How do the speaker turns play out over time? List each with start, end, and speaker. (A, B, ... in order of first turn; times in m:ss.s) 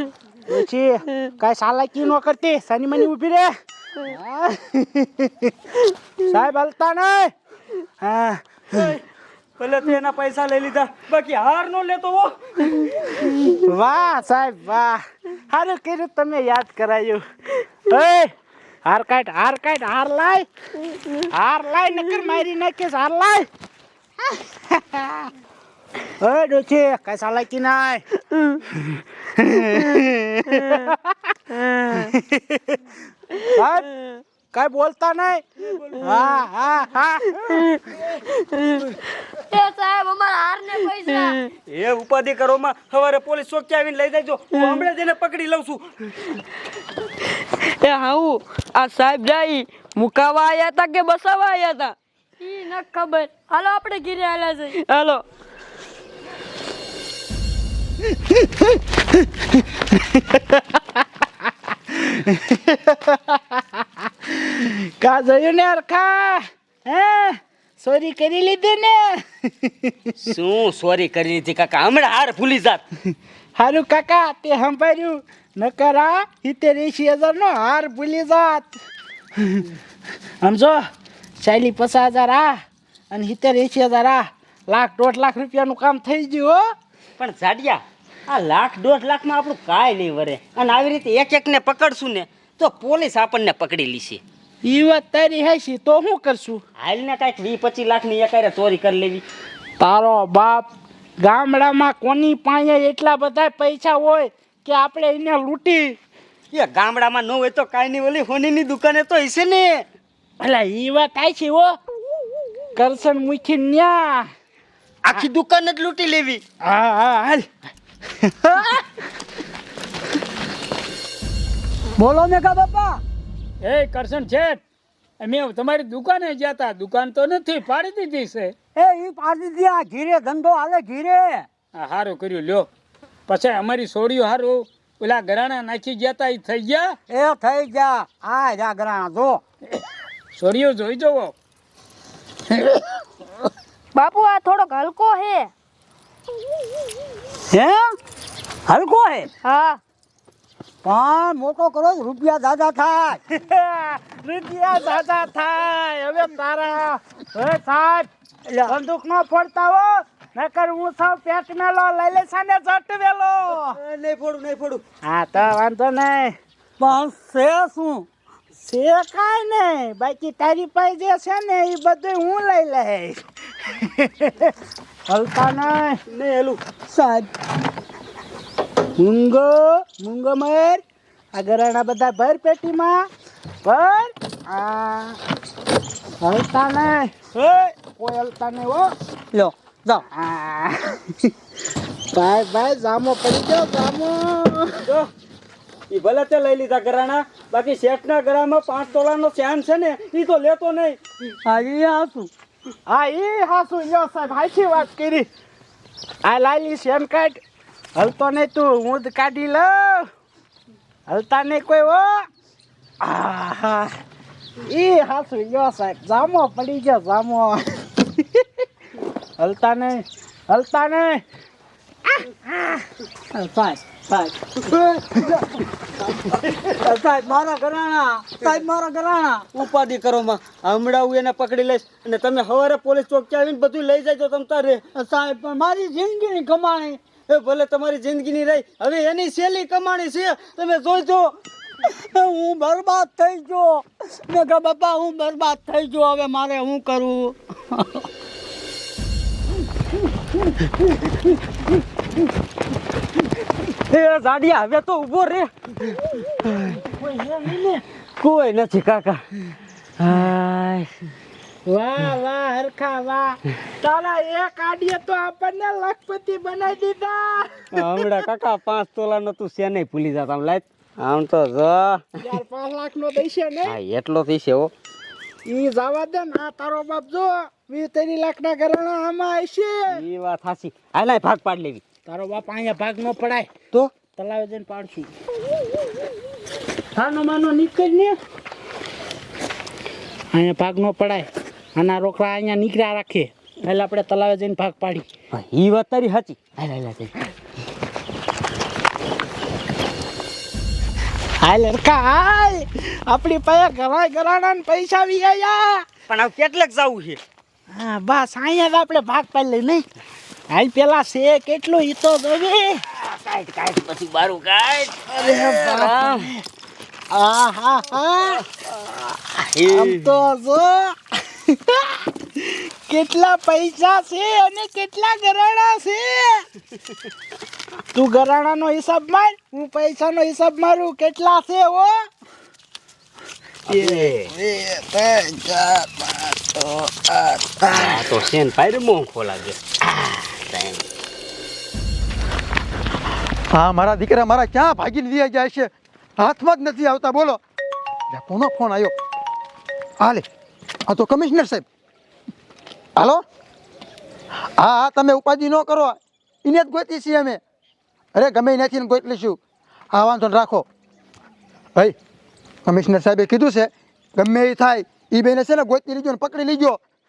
0:00.5-0:05.5 A
0:06.2-0:07.3 A
0:08.0-0:08.4 A
0:09.6-0:13.3 B
0:13.6-0:18.3 A
0:18.8-0:20.5 A
0:21.2-0:23.5 A
0:24.3-0:25.3 A
0:26.2-0:28.0 A
0:28.8-0:31.3 A
0:31.9-0:32.8 A
0:33.3-0:34.0 A
0:34.5-0:38.1 A
0:39.5-0:41.4 C
0:41.7-0:46.3 B
0:47.5-0:52.0 D
0:52.4-0:54.8 C
0:54.8-0:55.2 D
0:58.3-0:59.2 A
0:59.9-1:00.8 A
1:01.9-1:10.2 A
1:10.2-1:12.8 B
1:13.6-1:18.8 A
1:19.4-1:19.7 A
1:20.4-1:20.8 A
1:21.4-1:26.7 A
1:27.2-1:34.2 B
1:34.6-1:36.6 A
1:36.8-1:39.2 B
1:39.8-1:46.0 A
1:46.5-1:49.8 B
1:50.4-1:51.8 A
1:52.8-1:54.3 A
1:55.0-1:56.4 B
1:56.6-1:57.5 A
1:58.2-1:58.8 A
2:02.0-2:03.0 B
2:03.6-2:04.6 E
2:05.2-2:08.5 E
2:08.8-2:11.5 B
2:11.8-2:12.7 E
2:13.3-2:17.0 E
2:17.1-2:19.4 B
2:20.4-2:21.3 E
2:24.0-2:25.5 C
2:28.7-2:29.3 B
2:29.4-2:29.8 C
2:30.8-2:33.2 B
2:33.3-2:38.1 A
2:38.6-2:43.8 A
2:43.5-2:44.8 B
2:45.0-2:46.4 A
2:46.8-2:48.0 B
2:48.6-2:54.5 A
2:55.1-2:56.0 A
2:56.1-2:57.3 B
2:59.0-3:00.8 A
3:01.3-3:03.1 A
3:03.6-3:05.2 A
3:06.2-3:08.9 A
3:07.4-3:07.7 B
3:09.3-3:10.0 B
3:10.1-3:11.3 A
3:12.1-3:14.8 A
3:14.8-3:15.1 B
3:15.9-3:22.3 B
3:22.9-3:25.3 A
3:26.2-3:27.4 A
3:28.0-3:30.1 A
3:31.1-3:32.3 A
3:33.0-3:33.9 A
3:34.7-3:38.5 A
3:39.4-3:41.2 A
3:43.3-3:45.4 B
3:46.1-4:08.0 B
4:13.7-4:15.5 B
4:16.4-4:16.8 B
4:16.7-4:17.8 A
4:18.2-4:19.2 B
4:20.0-4:20.9 B
4:21.6-4:28.1 A
4:27.8-4:32.0 B
4:32.2-4:33.8 A
4:33.7-4:34.7 B
4:35.4-4:40.0 A
4:39.9-4:41.8 B
4:42.1-4:43.5 A
4:44.0-4:45.1 A
4:47.0-4:48.2 A
4:50.3-4:55.1 A
4:55.3-4:57.3 B
5:01.4-5:05.8 A
5:06.1-5:07.2 B
5:07.7-5:09.8 A
5:10.5-5:12.8 A
5:13.0-5:16.3 B
5:15.1-5:16.4 A
5:17.1-5:18.4 A
5:19.4-5:20.1 B
5:19.6-5:26.5 A
5:27.9-5:32.1 A
5:33.7-5:34.3 B
5:37.7-5:40.8 B
5:43.5-5:47.4 F
5:48.1-5:48.9 F
5:50.9-5:51.6 F
5:53.0-5:53.2 F
5:54.6-5:57.4 F
5:58.2-5:59.4 F
5:59.9-6:00.7 F
6:02.7-6:06.8 F